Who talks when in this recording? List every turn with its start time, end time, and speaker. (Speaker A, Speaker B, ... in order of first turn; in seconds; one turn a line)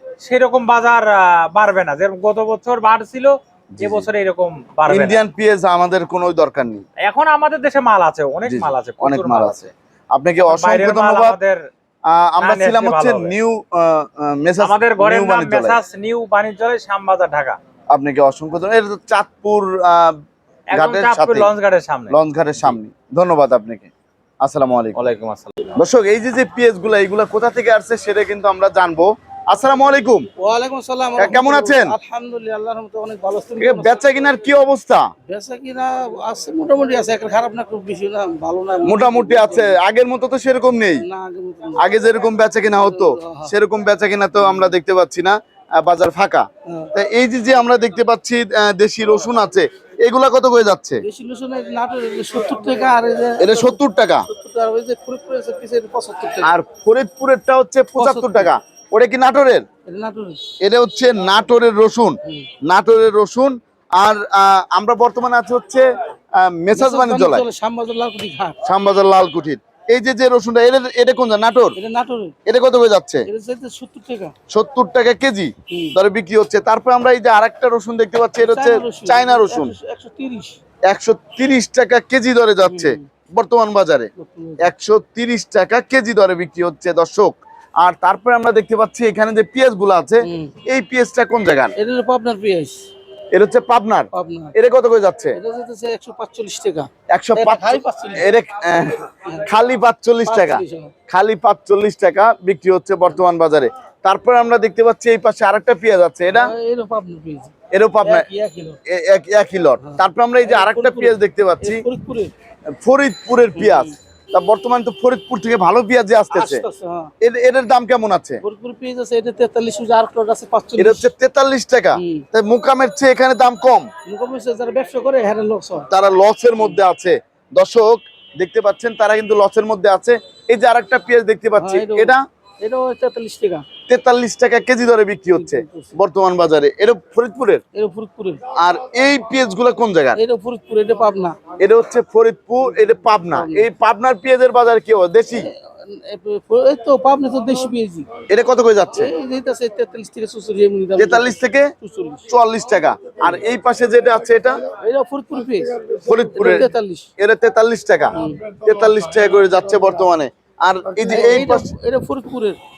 Speaker A: 0.2-5.2
Speaker B: 3.8-4.1
Speaker B: 4.9-6.8
Speaker A: 7.0-9.7
Speaker B: 8.4-11.4
Speaker A: 10.4-11.6
Speaker B: 12.1-15.8
Speaker A: 12.4-13.3
Speaker A: 14.6-17.6
Speaker B: 17.9-20.2
Speaker A: 20.7-22.7
Speaker B: 20.7-21.5
Speaker B: 22.1-25.0
Speaker A: 24.9-25.8
Speaker B: 25.8-30.2
Speaker C: 30.4-34.0
Speaker B: 31.2-31.9
Speaker B: 33.6-35.1
Speaker C: 35.3-39.8
Speaker B: 38.8-41.0
Speaker C: 41.0-41.8
Speaker B: 41.8-51.0
Speaker C: 42.8-43.5
Speaker C: 51.0-56.5
Speaker B: 53.4-54.3
Speaker B: 56.4-59.6
Speaker C: 58.0-58.5
Speaker C: 59.9-60.5
Speaker B: 60.6-65.9
Speaker B: 66.4-67.5
Speaker C: 66.7-68.6
Speaker B: 68.6-71.8
Speaker C: 71.8-72.4
Speaker B: 72.5-73.2
Speaker C: 73.3-74.3
Speaker B: 74.5-79.7
Speaker C: 78.4-80.5
Speaker B: 80.9-84.1
Speaker C: 82.7-83.0
Speaker C: 84.2-84.7
Speaker B: 84.6-91.7
Speaker C: 90.2-90.5
Speaker C: 91.8-92.8
Speaker B: 93.3-95.4
Speaker C: 94.1-94.5
Speaker C: 95.3-98.2
Speaker B: 97.1-106.5
Speaker C: 100.2-100.9
Speaker C: 106.3-107.5
Speaker B: 107.7-108.3
Speaker C: 108.0-108.8
Speaker B: 108.9-111.8
Speaker C: 109.8-112.3
Speaker B: 112.8-116.6
Speaker C: 113.5-113.9
Speaker C: 116.3-117.1
Speaker B: 117.2-118.4
Speaker C: 118.4-121.1
Speaker B: 120.8-123.9
Speaker C: 121.9-122.2
Speaker C: 124.1-125.9
Speaker B: 125.9-132.2
Speaker C: 131.6-133.7
Speaker B: 133.9-137.6
Speaker C: 135.3-135.9
Speaker C: 137.7-138.4
Speaker B: 138.6-140.2
Speaker C: 140.2-141.4
Speaker B: 141.6-145.5
Speaker C: 142.8-143.6
Speaker C: 145.3-148.1
Speaker B: 148.3-149.1
Speaker C: 148.9-152.2
Speaker B: 151.0-151.7
Speaker B: 152.3-154.6
Speaker C: 154.8-157.1
Speaker B: 156.0-161.7
Speaker C: 158.2-158.6
Speaker C: 161.0-162.6